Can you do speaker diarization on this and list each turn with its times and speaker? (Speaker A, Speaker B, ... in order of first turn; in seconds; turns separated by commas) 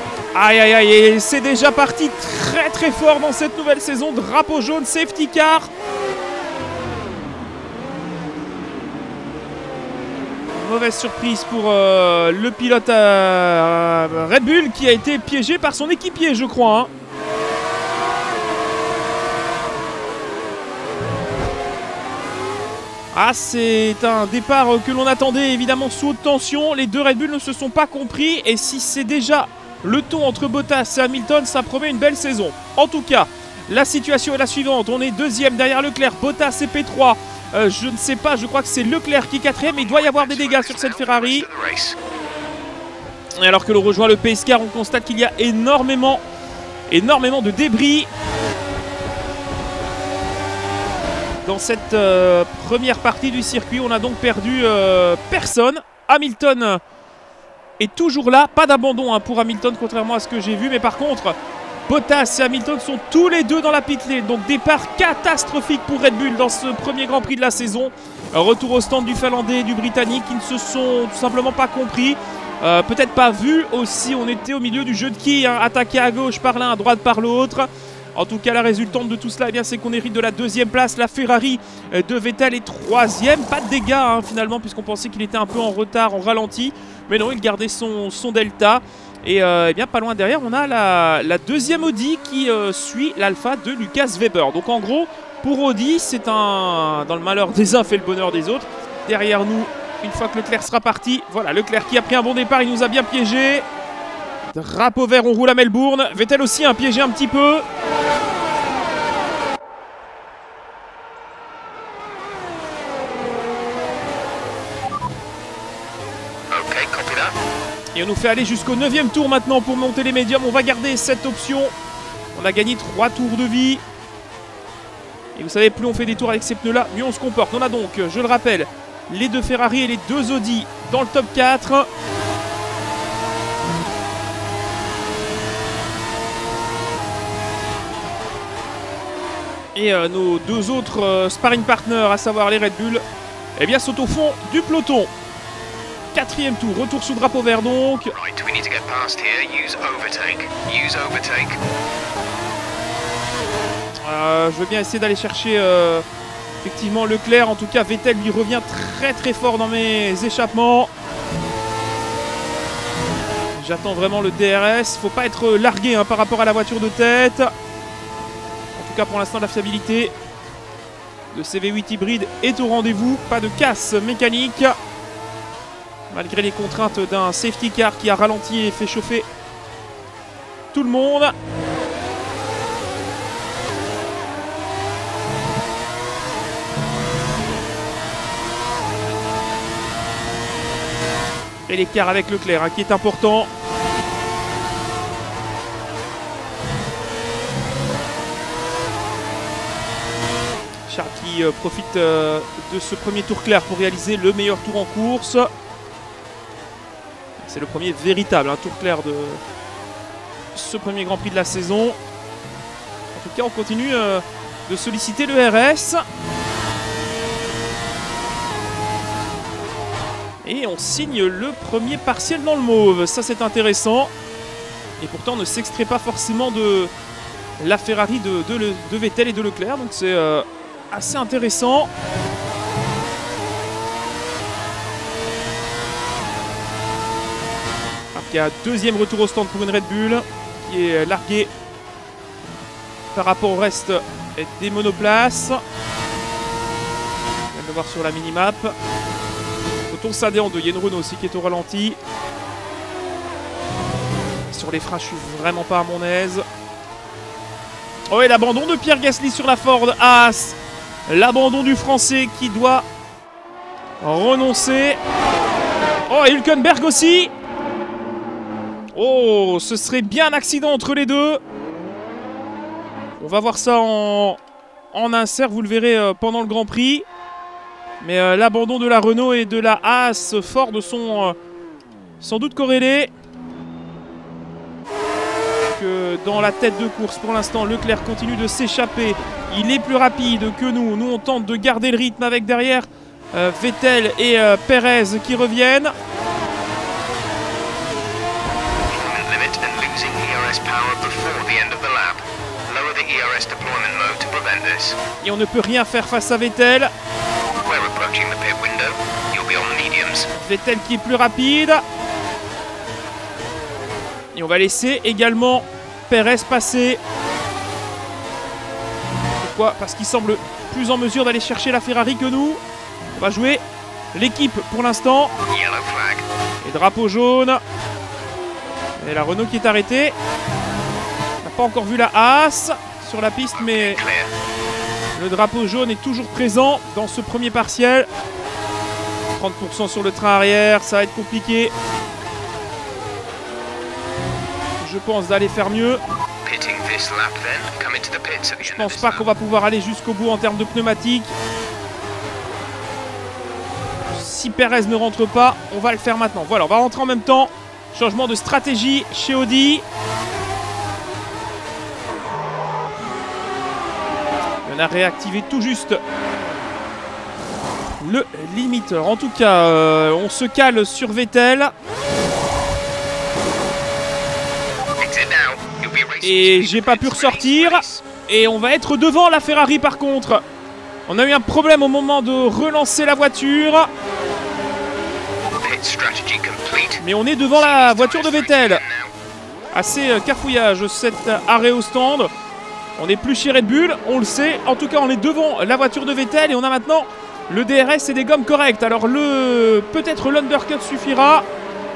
Speaker A: 0.3-5.7, Speaker A: 10.5-16.9, Speaker A: 23.1-41.5, Speaker B: 39.6-42.0, Speaker A: 43.4-46.2, Speaker A: 46.9-48.1, Speaker A: 51.4-56.8, Speaker A: 57.8-61.4, Speaker A: 61.9-103.7, Speaker A: 104.5-107.6, Speaker B: 116.5-117.3, Speaker A: 118.0-121.7, Speaker A: 122.3-123.8, Speaker A: 125.4-131.9, Speaker A: 139.8-143.0, Speaker A: 143.6-145.1, Speaker A: 146.1-148.1, Speaker B: 148.1-151.6, Speaker A: 154.0-156.1, Speaker A: 156.6-160.9, Speaker A: 163.6-167.5, Speaker A: 168.8-170.1, Speaker A: 171.3-174.8, Speaker A: 176.1-179.2, Speaker A: 180.7-181.3, Speaker A: 191.7-193.5, Speaker A: 200.9-205.5, Speaker A: 207.4-209.4, Speaker A: 210.5-212.0, Speaker A: 213.1-216.1, Speaker A: 220.4-224.1, Speaker A: 225.0-226.9, Speaker A: 227.6-231.9, Speaker A: 238.1-241.5, Speaker A: 243.1-245.6, Speaker A: 247.5-248.8, Speaker A: 249.9-252.0, Speaker A: 254.5-256.4, Speaker A: 258.1-260.6, Speaker A: 261.1-262.9, Speaker A: 264.0-265.0, Speaker A: 266.1-267.3, Speaker A: 268.9-271.4, Speaker A: 273.2-274.4, Speaker A: 274.9-277.1, Speaker A: 278.0-281.4, Speaker A: 282.2-283.1, Speaker A: 285.7-295.9, Speaker B: 298.9-305.0, Speaker A: 305.2-306.9, Speaker B: 307.6-310.3, Speaker A: 310.3-311.8, Speaker A: 314.3-317.0, Speaker A: 319.4-322.6, Speaker A: 323.1-323.6, Speaker A: 324.1-325.3, Speaker B: 325.5-326.3, Speaker A: 326.6-327.6, Speaker A: 329.0-330.1, Speaker A: 331.4-334.0, Speaker B: 333.5-334.3, Speaker A: 335.1-338.1, Speaker A: 339.4-341.7, Speaker A: 344.8-346.0, Speaker B: 346.4-349.3, Speaker A: 348.6-351.3, Speaker A: 354.1-359.8, Speaker A: 364.6-366.0, Speaker A: 368.0-371.7, Speaker B: 375.0-378.1, Speaker A: 376.2-380.4, Speaker A: 381.1-383.9, Speaker B: 385.6-389.1, Speaker A: 387.0-388.8, Speaker A: 389.7-392.3, Speaker A: 393.0-401.5